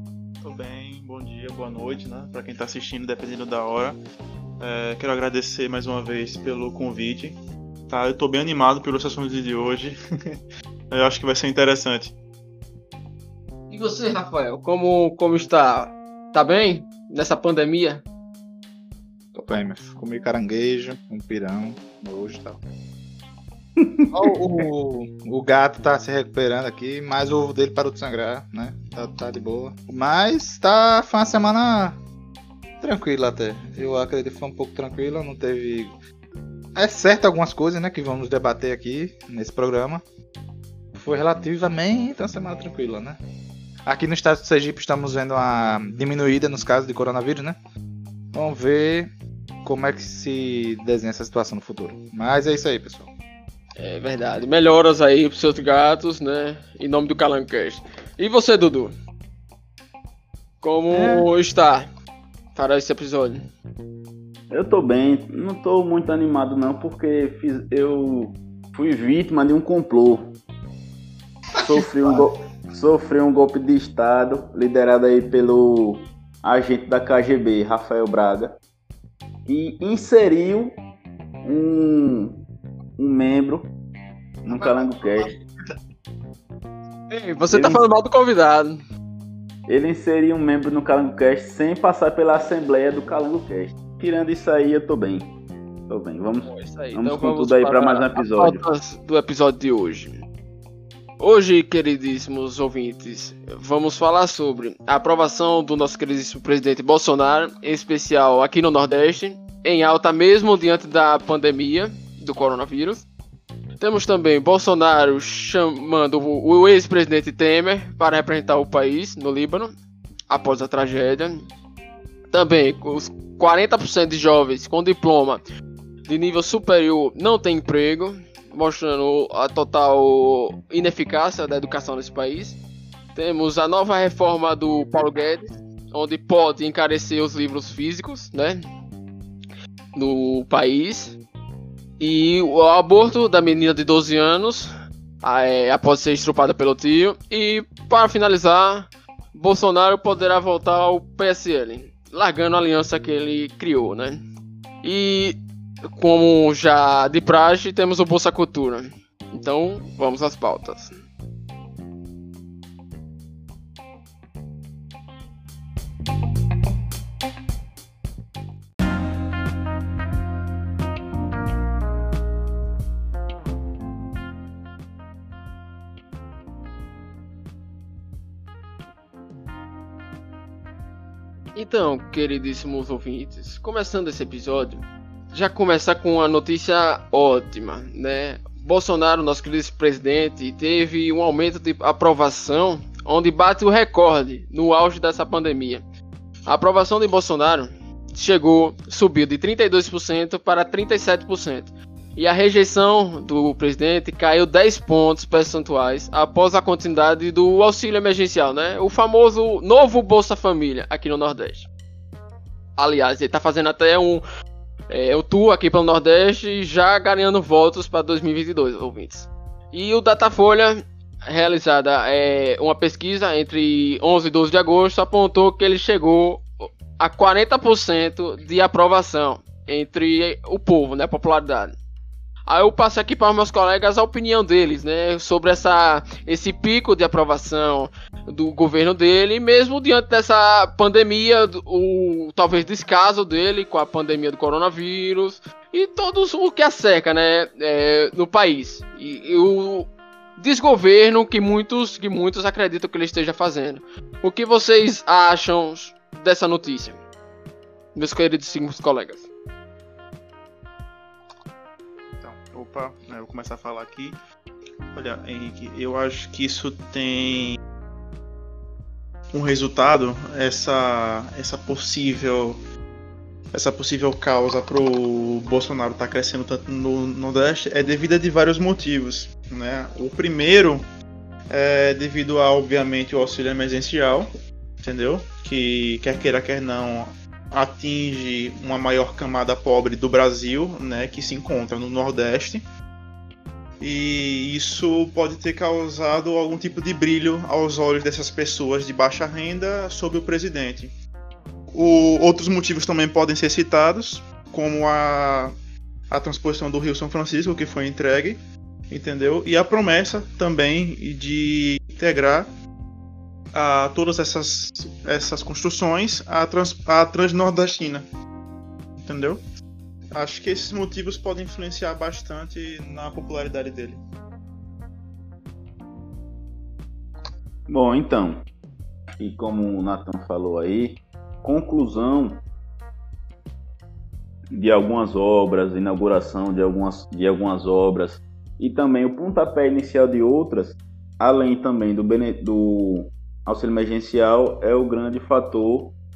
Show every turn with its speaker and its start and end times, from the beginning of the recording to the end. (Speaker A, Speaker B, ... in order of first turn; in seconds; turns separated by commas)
Speaker A: 0.4-4.0, Speaker A: 4.6-7.4, Speaker A: 7.9-10.4, Speaker A: 10.9-12.2, Speaker B: 13.7-18.0, Speaker C: 19.3-22.6, Speaker D: 23.8-24.1, Speaker C: 24.1-32.0, Speaker C: 32.8-35.9, Speaker C: 36.8-40.0, Speaker C: 41.0-43.2, Speaker C: 43.9-47.6, Speaker C: 48.3-49.1, Speaker C: 49.6-53.1, Speaker B: 53.8-58.9, Speaker B: 60.6-61.9, Speaker D: 60.9-61.2, Speaker B: 62.5-63.4, Speaker D: 64.5-70.3, Speaker D: 71.6-78.6, Speaker D: 79.5-80.8, Speaker D: 81.4-82.4, Speaker D: 83.0-83.7, Speaker D: 84.4-85.3, Speaker B: 84.5-85.3, Speaker B: 87.1-88.7, Speaker D: 87.5-87.8, Speaker D: 89.7-95.3, Speaker D: 95.9-98.6, Speaker B: 96.5-100.1, Speaker B: 101.2-113.0, Speaker B: 113.8-119.7, Speaker B: 120.3-121.5, Speaker B: 122.3-125.4, Speaker B: 126.1-132.6, Speaker B: 133.1-138.6, Speaker B: 139.9-141.2, Speaker B: 142.0-144.7, Speaker B: 145.2-154.2, Speaker B: 154.8-161.0, Speaker B: 181.6-195.8, Speaker B: 196.5-211.7, Speaker B: 212.8-214.2, Speaker B: 214.9-231.7, Speaker B: 232.4-257.0, Speaker B: 257.9-259.3, Speaker A: 262.2-264.2, Speaker A: 264.9-267.6, Speaker A: 269.3-272.6, Speaker A: 273.5-280.8, Speaker A: 281.5-284.3, Speaker A: 284.8-292.6, Speaker A: 293.8-300.9, Speaker A: 301.7-305.5, Speaker A: 306.1-308.4, Speaker A: 308.9-312.5, Speaker A: 313.5-318.0, Speaker A: 319.0-319.4, Speaker A: 320.1-324.0, Speaker D: 327.7-328.4, Speaker D: 329.2-332.4, Speaker D: 334.5-345.9